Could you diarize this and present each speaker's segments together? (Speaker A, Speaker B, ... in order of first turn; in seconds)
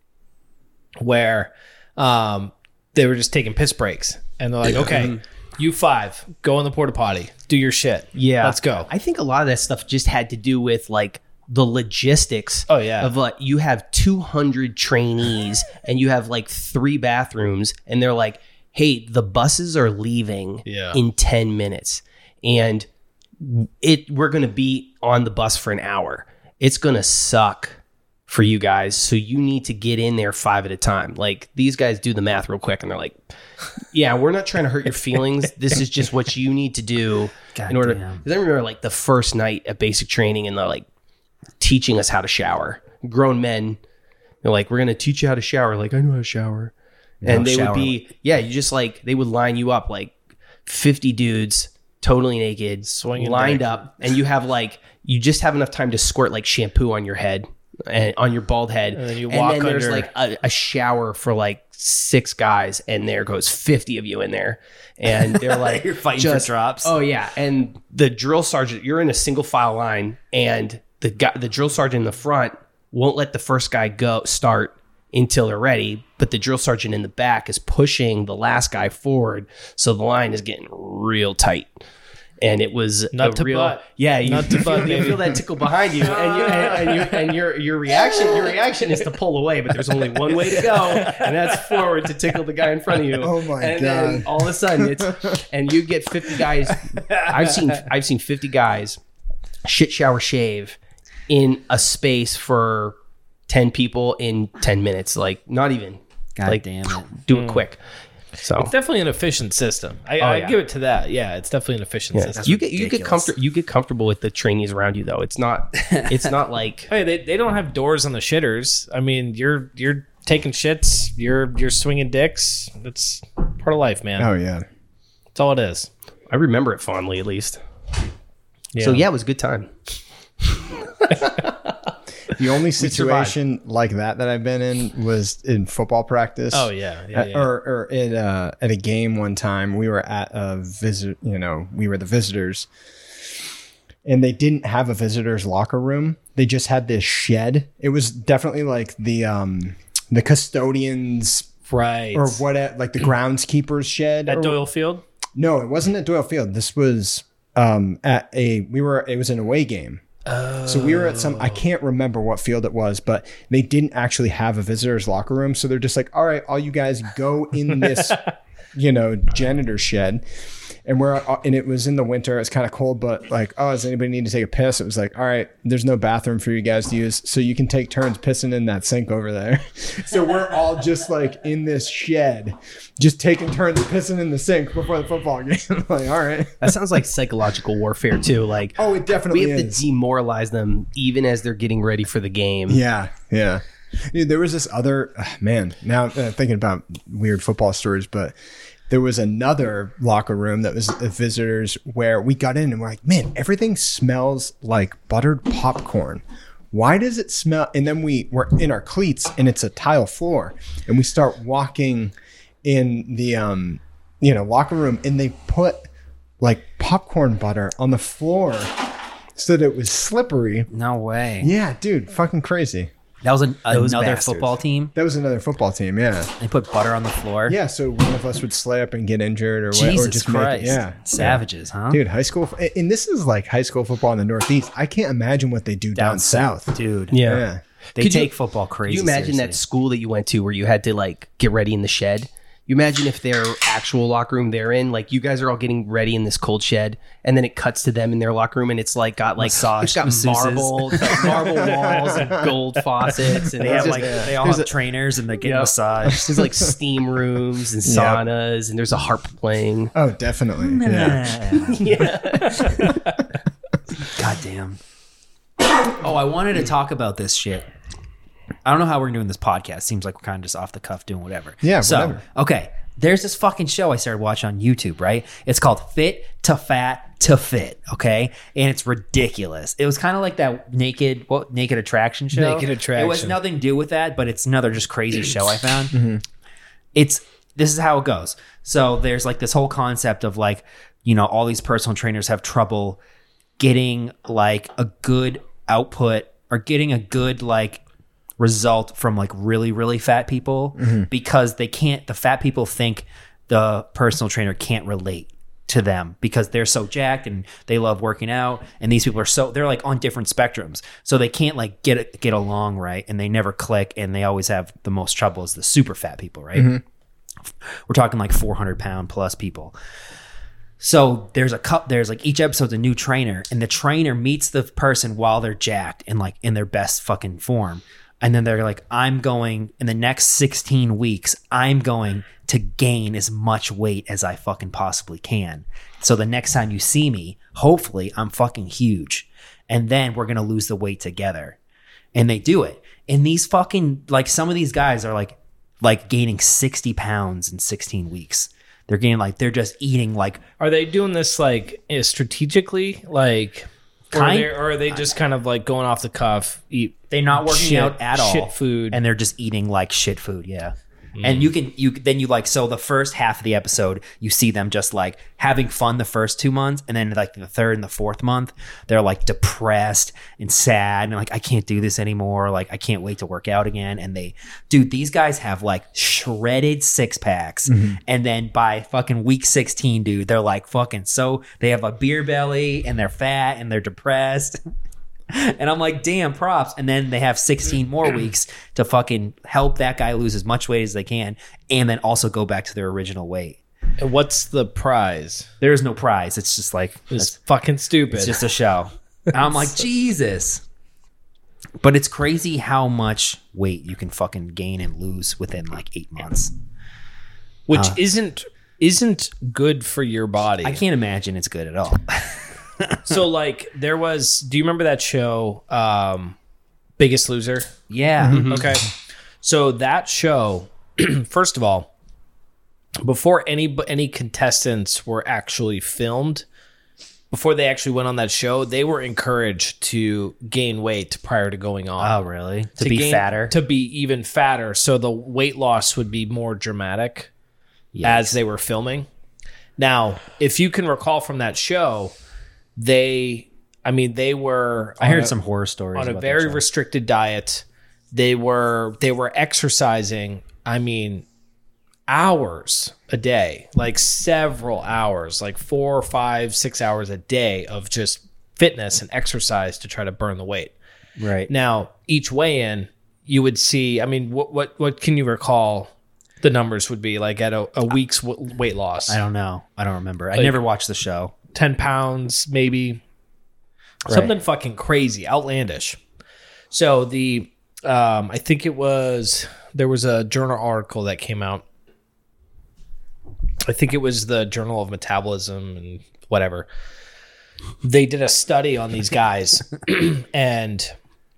Speaker A: 1.0-8.9, 12.7-13.1, 20.6-21.0, 52.9-53.9, 58.9-60.1, 83.1-85.4, 86.0-87.3, 88.0-88.5, 90.2-92.0, 97.1-97.8, 107.3-107.6, 108.5-112.5, 116.9-124.3, 125.3-125.9, 128.7-129.0, 136.5-137.5, 151.7-152.4, 154.3-155.0, 160.2-161.6, 167.9-168.3, 262.9-263.1, 282.3-283.4, 350.6-359.0, 361.2-361.5, 394.0-395.5, 397.1-398.4, 407.7-410.8, 413.1-416.3, 417.0-417.7, 418.4-418.9, 419.4-421.9, 423.0-426.4, 427.3-432.2, 432.8-437.3, 438.0-439.1, 439.8-442.1, 442.8-445.3, 445.9-451.2, 452.1-460.7, 461.5-465.9, 466.4-469.2, 471.5-473.0, 474.1-476.0, 476.7-481.6, 483.6-486.6, 487.8-490.9
Speaker B: 4.8-5.2, 8.2-22.9, 23.4-33.2, 33.9-40.9, 41.6-43.8, 44.4-46.7, 47.2-50.1, 50.6-81.8, 82.4-99.0, 99.6-100.8, 101.3-103.0, 103.5-107.8, 108.4-108.7, 110.2-110.6, 112.1-116.9, 126.3-127.6, 128.8-129.7, 130.4-131.5, 132.8-133.3, 186.6-192.8, 223.7-224.6, 237.1-237.4, 238.0-238.3, 238.9-254.7, 255.4-259.9, 261.5-263.0, 418.3-418.7
Speaker C: 37.5-38.2, 47.2-48.0, 65.2-67.0, 106.4-107.1, 112.4-113.3, 220.7-221.5, 223.2-224.9, 226.4-227.6, 229.7-232.0, 235.9-237.2, 237.9-239.6, 249.4-251.4, 253.6-256.3, 260.6-262.1, 264.0-264.8, 265.8-267.7, 268.6-286.0, 286.9-293.0, 293.6-297.8, 298.4-316.7, 317.9-319.7, 320.8-341.6, 342.1-350.4, 354.1-354.5, 357.1-384.6, 385.3-393.6, 395.6-397.3, 398.1-400.6, 401.8-406.5, 410.6-413.1, 417.9-418.5, 432.0-433.5, 437.9-438.4, 445.0-446.6, 461.2-461.5, 469.1-471.3, 474.1-474.3
Speaker D: 93.2-95.4, 124.2-124.6, 132.3-142.7, 144.0-151.5, 152.1-154.6, 155.3-160.0, 160.6-170.2, 170.8-186.7, 188.8-189.8, 192.7-198.3, 198.9-212.1, 212.6-215.9, 216.4-218.7, 219.3-220.7, 221.4-222.9, 224.9-226.3, 227.5-237.6, 251.6-252.5, 253.6-254.4, 256.3-256.7, 257.8-258.2, 259.9-261.4, 271.6-272.2, 285.9-286.2, 300.8-301.1, 316.5-316.8, 377.7-378.0